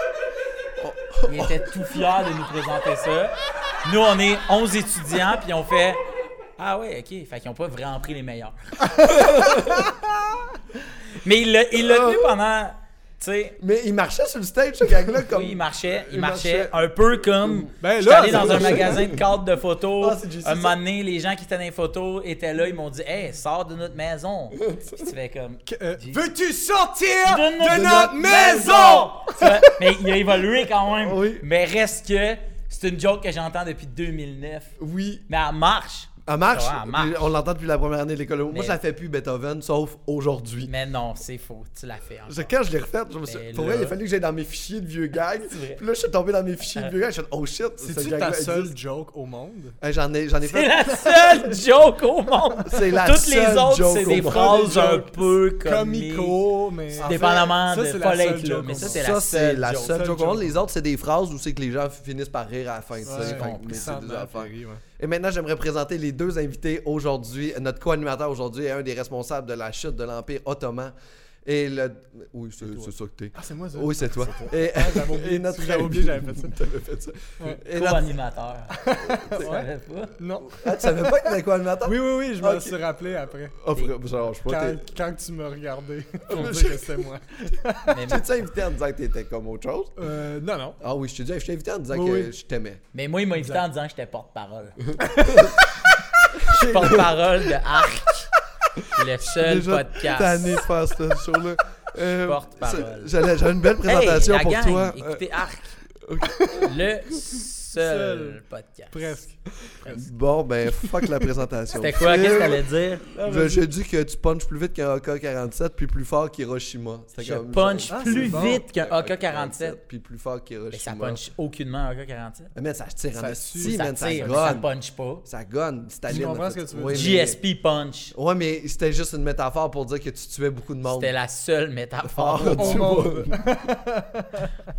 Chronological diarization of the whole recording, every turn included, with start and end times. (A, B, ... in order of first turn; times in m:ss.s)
0:00.8-0:02.0 A
0:01.2-0:06.0 B
0:06.6-0:09.1 B
0:09.0-0:09.9 A
0:09.5-0:09.8 C
0:11.1-0:13.6 B
0:11.7-0:12.4 A
0:13.6-0:16.8 A
0:15.3-0:26.3 B
0:17.4-0:19.2 A
0:17.8-0:18.9 C
0:20.0-0:20.8 A
0:24.6-0:25.1 A
0:25.7-0:29.9 C
0:27.2-0:34.7 B
0:27.7-0:28.8 A
0:30.8-0:31.4 A
0:34.8-0:35.2 A
0:35.3-0:37.2 B
0:36.2-0:40.7 A
0:38.5-0:38.8 B
0:40.6-0:42.5 B
0:42.3-0:48.7 A
0:43.2-0:44.0 B
0:43.6-0:43.8 C
0:45.5-0:45.8 B
0:47.8-0:49.8 C
0:49.8-0:50.7 A
0:50.4-0:56.4 B
0:52.6-0:54.7 A
0:54.1-0:59.0 C
0:57.0-1:00.2 B
0:57.0-0:57.4 A
0:58.8-1:10.9 A
1:00.0-1:00.4 C
1:03.0-1:03.9 B
1:03.0-1:04.8 C
1:11.4-1:18.1 A
1:13.4-1:16.6 C
1:17.6-1:20.2 B
1:18.7-1:23.6 C
1:20.4-1:22.8 A
1:23.6-1:24.8 A
1:24.4-1:28.0 C
1:26.3-1:27.0 A
1:27.9-1:28.3 B
1:28.0-1:29.9 A
1:30.0-1:30.8 C
1:30.8-1:32.8 A
1:31.9-1:32.3 C
1:32.9-1:34.8 B
1:33.4-1:33.6 C
1:35.0-1:35.6 A
1:35.0-1:35.5 C
1:36.3-1:37.3 A
1:36.5-1:38.3 B
1:38.9-1:40.6 B
1:39.2-1:46.7 A
1:42.2-1:43.1 B
1:43.8-1:45.8 B
1:46.6-1:49.2 B
1:47.7-1:48.4 C
1:48.9-1:50.0 C
1:49.9-2:01.2 A
1:50.7-1:51.3 C
1:51.7-1:53.0 B
1:53.1-1:53.6 C
1:57.2-1:58.6 C
1:57.5-1:59.8 B
2:00.7-2:02.5 B
2:02.5-2:04.7 A
2:03.1-2:04.5 C
2:03.6-2:05.2 B
2:05.2-2:07.4 A
2:06.1-2:07.2 C
2:06.9-2:08.1 B
2:08.1-2:11.1 A
2:10.8-2:12.9 B
2:12.0-2:13.4 A
2:12.4-2:14.5 C